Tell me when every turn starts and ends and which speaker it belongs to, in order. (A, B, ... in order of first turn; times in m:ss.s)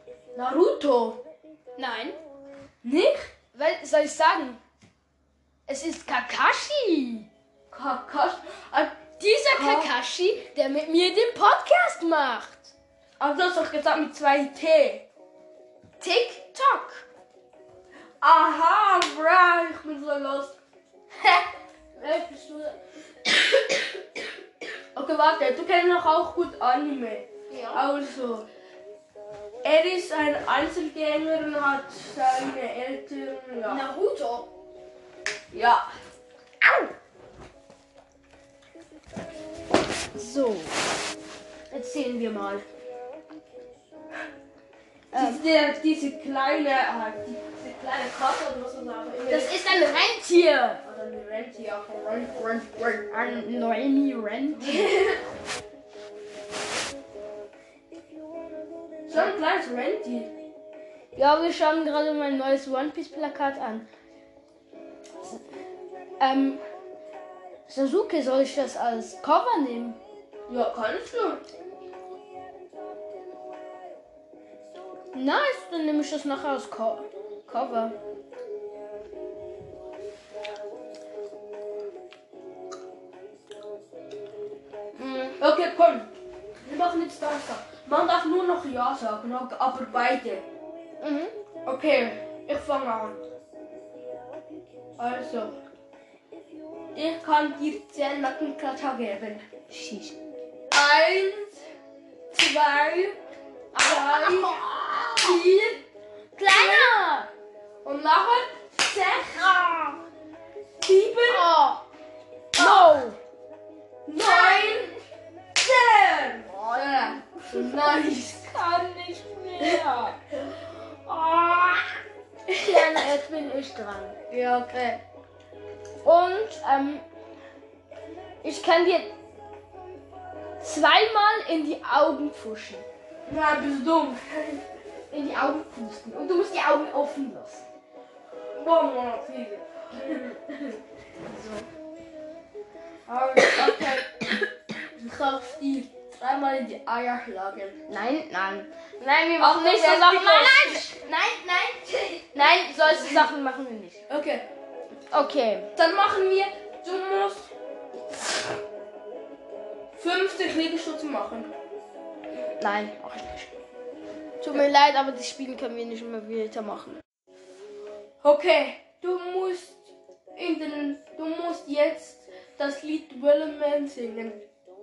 0:00.3-0:01.2 A
0:01.8-0:02.2 B
0:02.8-0:03.3 A
0:03.5-0:04.6 B
0:05.7-0:07.3 B
0:07.7-0:09.9 A
0:09.2-0:12.7 B
0:13.2-0:15.1 A
0:16.0-0:17.0 B
0:18.2-0:20.6 A
0:21.9-0:23.3 B
0:24.9-0:28.5 A
0:27.5-0:27.8 B
0:29.6-0:33.8 A
0:33.6-0:34.5 B
0:35.5-0:35.9 A
0:40.1-0:40.8 B
0:41.7-0:42.6 B
0:45.1-0:45.4 B
0:45.1-0:49.6 A
0:49.3-0:50.8 B
0:50.8-0:53.5 A
0:53.1-0:55.1 B
0:54.5-0:55.2 A
0:59.1-1:00.3 A
1:01.2-1:03.9 B
1:06.2-1:06.6 B
1:07.7-1:10.0 B
1:10.5-1:11.4 A
1:15.1-1:17.9 B
1:24.9-1:25.4 B
1:25.4-1:26.1 A
1:26.6-1:30.4 A
1:31.0-1:31.3 B
1:31.6-1:33.2 A
1:35.0-1:35.6 A
1:36.9-1:39.4 A
1:39.7-1:40.1 B
1:40.7-1:41.6 A
1:42.3-1:43.2 A
1:43.7-1:44.6 A
1:43.7-1:45.4 B
1:45.2-1:45.8 A
1:46.4-1:47.3 B
1:46.4-1:47.0 A
1:47.8-1:50.0 A
1:50.8-1:51.5 A
1:51.3-1:51.8 B
1:52.5-1:53.0 A
1:52.6-1:53.2 B
1:54.1-1:54.9 A
1:54.2-1:55.0 B
1:55.6-1:58.5 A
1:57.5-2:00.2 B
2:01.0-2:02.0 B
2:02.5-2:04.2 B
2:02.5-2:02.9 A
2:04.3-2:05.0 A
2:06.0-2:07.0 B
2:08.4-2:09.1 B
2:10.6-2:12.8 B
2:13.2-2:14.6 A
2:15.1-2:17.6 B
2:18.5-2:20.6 A
2:21.3-2:21.7 B
2:23.1-2:24.4 A
2:24.9-2:27.8 A
2:27.9-2:34.0 B
2:29.4-2:31.1 A
2:31.8-2:33.3 A
2:34.1-2:34.5 A
2:35.1-2:35.7 B
2:35.7-2:37.5 A
2:39.9-2:41.5 A
2:42.4-2:43.5 B
2:44.4-2:47.0 B
2:48.2-2:54.4 A